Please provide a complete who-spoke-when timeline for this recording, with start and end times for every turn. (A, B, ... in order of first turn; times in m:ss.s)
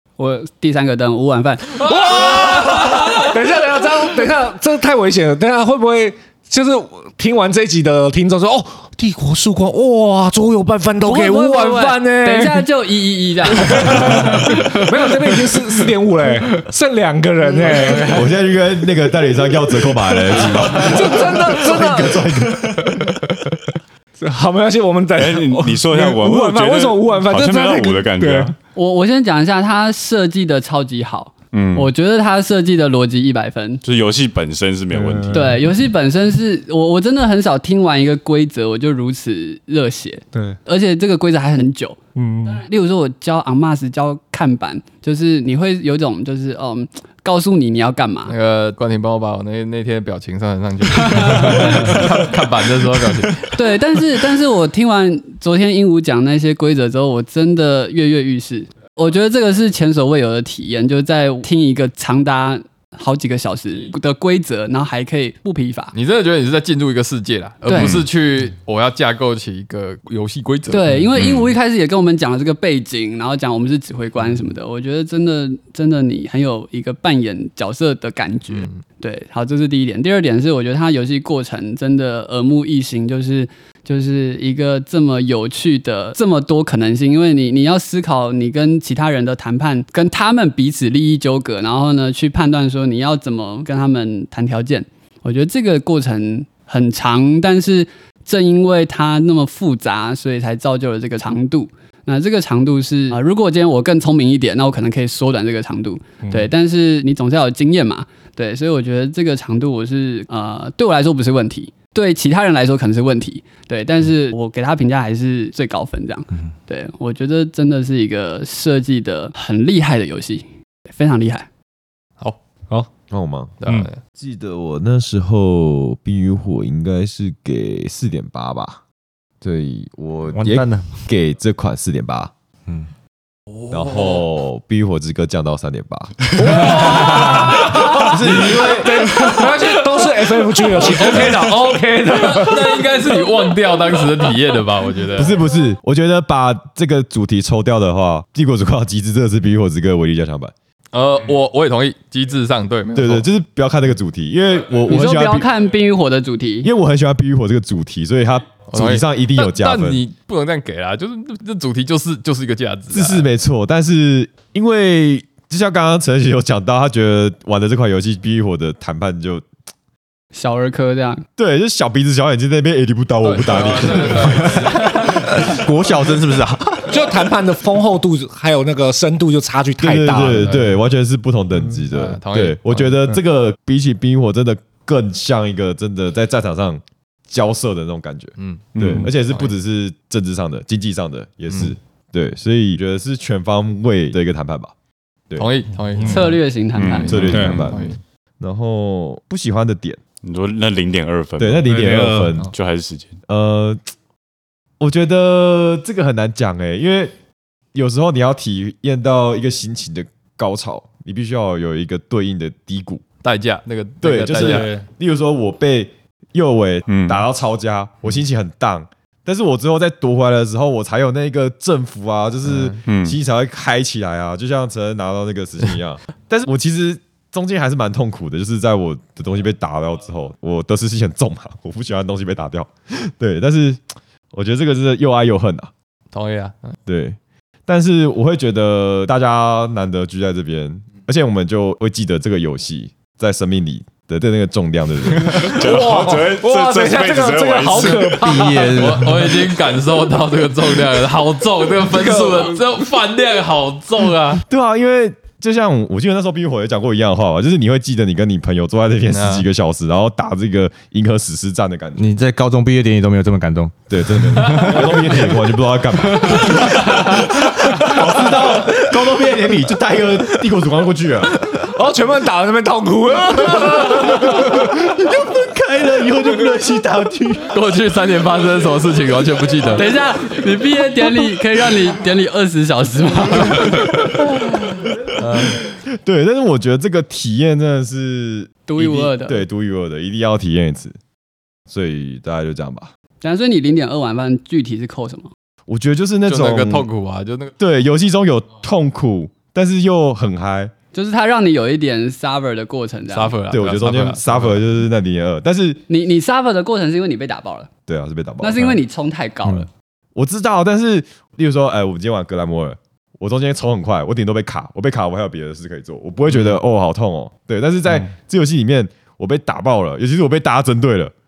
0:00.2-0:02.4 A
0:01.8-0:12.7 B
0:02.2-0:03.2 C
0:11.0-0:15.4 A
0:13.6-0:18.1 B
0:17.6-0:18.3 C
0:17.8-0:18.1 A
0:18.1-0:23.2 D
0:20.3-0:21.0 C
0:20.6-0:22.2 B
0:24.2-0:28.6 B
0:25.2-0:28.6 E
0:28.7-0:33.8 A
0:31.5-0:31.9 E
0:33.8-0:35.6 E
0:34.9-0:35.7 B
0:35.3-0:48.3 A
0:40.3-0:40.6 B
0:42.1-0:42.6 B
0:48.3-0:53.6 C
0:51.0-0:51.9 A
0:53.5-1:05.9 A
1:05.9-1:11.0 C
1:07.7-1:08.0 A
1:07.7-1:08.0 E
1:10.7-2:01.5 A
1:11.1-1:11.5 E
1:18.5-1:18.8 C
1:46.2-1:46.5 B
2:03.1-2:03.5 D
2:03.6-2:04.0 C
2:04.1-2:08.8 D
2:09.4-2:12.3 D
2:10.4-2:11.0 F
2:13.7-2:19.3 D
2:13.7-2:14.2 C
2:16.4-2:22.9 B
2:18.6-2:19.8 C
2:20.8-2:25.4 C
2:25.2-2:30.5 D
2:30.9-2:33.3 C
2:32.9-2:35.5 D
2:34.9-2:36.7 A
2:36.6-2:40.0 D
2:38.7-2:43.2 C
2:42.9-2:49.4 D
2:50.3-2:51.2 A
2:51.4-2:55.0 D
2:53.2-2:55.2 C
2:55.0-2:57.0 F
2:56.9-3:00.5 B
2:59.8-3:14.7 D
3:00.3-3:00.7 C
3:01.9-3:03.0 C
3:08.4-3:09.5 C
3:08.7-3:09.1 E
3:08.8-3:09.1 B
3:15.4-3:18.0 C
3:16.0-3:16.3 B
3:16.1-3:17.3 A
3:16.7-3:17.7 E
3:17.0-3:20.0 D
3:17.3-3:17.6 B
3:20.2-3:21.7 E
3:21.4-3:22.5 D
3:21.7-3:22.4 B
3:22.5-3:23.1 E
3:23.3-3:23.8 D
3:24.8-3:27.1 D
3:27.7-3:33.0 D
3:33.2-3:34.7 C
3:34.0-3:53.8 D
3:34.4-3:34.9 B
3:36.9-3:37.2 E
3:42.8-3:43.2 E
3:54.3-3:55.7 D
3:56.1-3:56.8 C
3:56.9-4:05.6 D
4:05.2-4:08.3 E
4:05.3-4:08.8 B
4:08.1-4:09.3 F
4:08.6-4:14.4 C
4:11.9-4:12.6 B
4:14.5-4:22.1 D
4:19.1-4:19.4 C
4:22.0-4:24.9 F
4:23.9-4:31.4 D
4:31.5-4:34.5 B
4:33.7-4:37.6 D
4:37.5-4:39.9 C
4:39.7-4:44.0 A
4:45.2-4:45.7 C
4:45.9-4:51.0 D
4:48.7-4:49.4 A
4:51.7-4:52.9 D
4:53.2-4:55.3 A
4:55.7-4:56.9 D
4:56.3-4:57.5 C
4:57.6-5:00.7 D
5:00.9-5:03.4 A
5:03.1-5:04.6 C
5:03.5-5:05.8 D
5:05.9-5:07.7 A
5:07.9-5:08.8 D
5:08.4-5:09.7 A
5:10.2-5:21.1 D